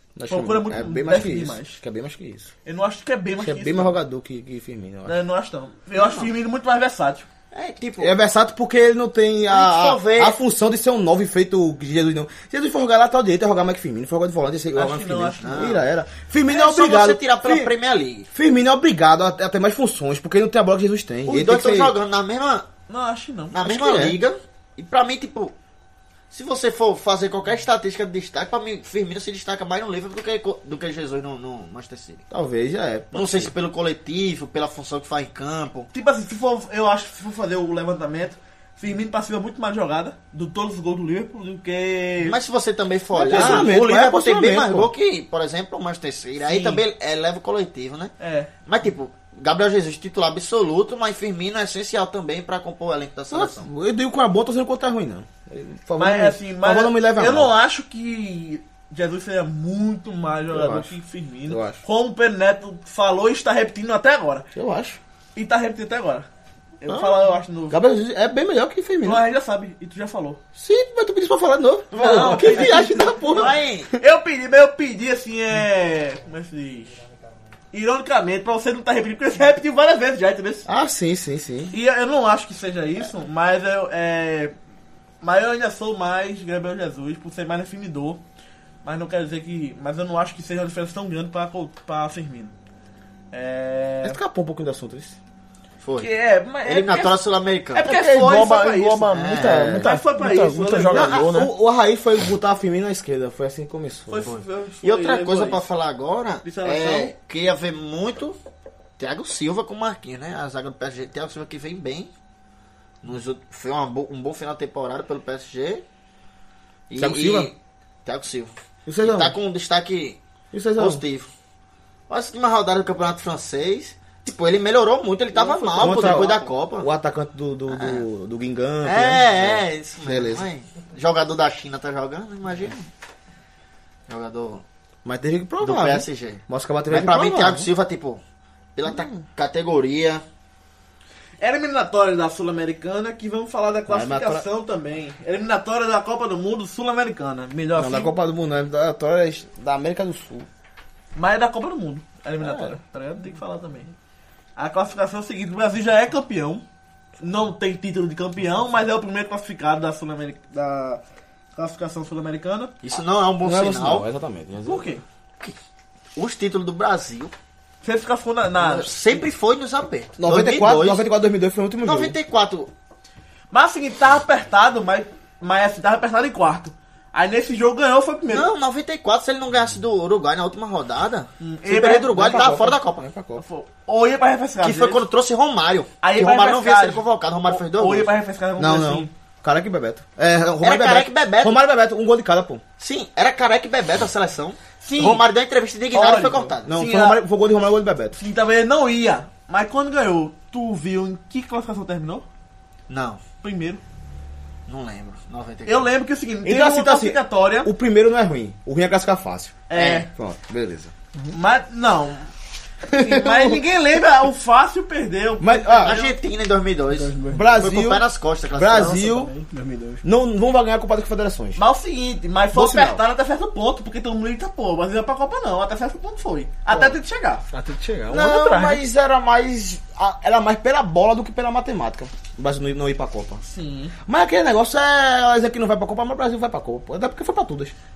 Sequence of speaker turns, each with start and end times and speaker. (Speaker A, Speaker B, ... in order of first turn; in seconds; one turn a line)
Speaker A: 0.2-2.5
Speaker B: 0.3-1.8
Speaker B: 2.6-4.0
Speaker A: 3.4-5.2
Speaker B: 5.0-7.3
Speaker C: 6.0-6.3
Speaker C: 7.5-8.1
Speaker A: 8.0-17.7
Speaker C: 9.5-10.4
Speaker B: 14.8-15.8
Speaker C: 15.4-15.8
Speaker C: 16.5-18.3
Speaker A: 18.3-21.9
Speaker C: 21.3-22.7
Speaker B: 22.9-23.6
Speaker C: 23.5-25.5
Speaker A: 23.6-24.2
Speaker C: 26.3-32.2
Speaker A: 32.3-33.5
Speaker C: 33.1-35.9
Speaker B: 35.9-42.4
Speaker C: 42.2-48.1
Speaker A: 43.1-44.9
Speaker B: 43.3-43.7
Speaker B: 46.4-46.8
Speaker B: 48.2-48.5
Speaker C: 48.7-53.7
Speaker A: 53.3-57.5
Speaker B: 56.0-64.5
Speaker A: 60.5-60.9
Speaker A: 61.5-61.8
Speaker A: 64.5-65.0
Speaker B: 65.3-66.3
Speaker B: 66.8-67.8
Speaker A: 66.9-67.2
Speaker A: 67.7-69.2
Speaker B: 69.0-70.4
Speaker A: 70.6-73.6
Speaker B: 71.9-77.0
Speaker C: 73.3-73.9
Speaker B: 77.7-80.7
Speaker A: 80.7-81.8
Speaker B: 81.7-84.5
Speaker B: 85.2-88.2
Speaker B: 88.8-92.5
Speaker B: 93.3-94.2
Speaker A: 94.0-95.2
Speaker C: 95.8-96.1
Speaker B: 96.0-97.2
Speaker C: 96.6-97.9
Speaker B: 97.7-99.3
Speaker D: 97.9-101.5
Speaker C: 99.1-99.8
Speaker A: 99.4-99.9
Speaker B: 99.8-101.2
Speaker A: 100.9-104.3
Speaker B: 104.1-105.6
Speaker C: 104.3-108.4
Speaker B: 106.4-107.1
Speaker C: 109.0-112.1
Speaker C: 113.0-115.8
Speaker C: 116.9-118.5
Speaker A: 117.0-117.5
Speaker A: 118.9-119.3
Speaker C: 119.0-120.2
Speaker A: 120.5-121.0
Speaker C: 120.8-121.3
Speaker C: 122.1-126.9
Speaker B: 125.3-126.4
Speaker A: 125.8-130.5
Speaker C: 127.7-128.0
Speaker C: 128.8-132.9
Speaker C: 134.1-134.6
Speaker A: 135.1-137.7
Speaker C: 135.6-138.2
Speaker C: 138.8-140.2
Speaker B: 141.4-148.1
Speaker A: 143.9-144.4
Speaker A: 147.8-150.5
Speaker B: 151.2-153.9
Speaker A: 152.4-152.8
Speaker B: 154.6-156.6
Speaker B: 157.2-161.0
Speaker B: 161.6-162.8
Speaker C: 162.8-164.1
Speaker A: 163.4-165.0
Speaker B: 164.7-165.0
Speaker C: 166.2-167.3
Speaker B: 167.8-169.2
Speaker C: 168.6-171.0
Speaker A: 170.2-172.2
Speaker C: 171.8-172.7
Speaker B: 173.5-178.5
Speaker C: 178.3-183.0
Speaker B: 181.4-182.4
Speaker A: 182.1-183.4
Speaker B: 183.4-185.0
Speaker C: 184.6-188.1
Speaker B: 186.0-189.1
Speaker A: 188.6-192.6
Speaker C: 190.6-191.6
Speaker C: 192.8-196.7
Speaker B: 194.8-195.2
Speaker B: 195.9-197.2
Speaker A: 196.7-198.2
Speaker B: 198.2-202.3
Speaker C: 202.9-203.2
Speaker B: 203.4-203.8
Speaker C: 204.7-205.9
Speaker B: 205.7-207.7
Speaker A: 206.4-210.9
Speaker B: 209.7-210.1
Speaker C: 209.7-210.1
Speaker B: 211.3-212.3
Speaker B: 212.9-216.2
Speaker A: 212.9-213.7
Speaker A: 215.4-216.0
Speaker C: 215.8-219.0
Speaker D: 216.9-217.8
Speaker A: 217.3-219.3
Speaker D: 218.8-220.0
Speaker A: 220.0-221.6
Speaker B: 221.6-227.4
Speaker A: 222.5-223.0
Speaker A: 226.7-227.0
Speaker D: 227.5-228.8
Speaker A: 228.1-233.4
Speaker B: 233.4-233.9
Speaker A: 234.1-237.8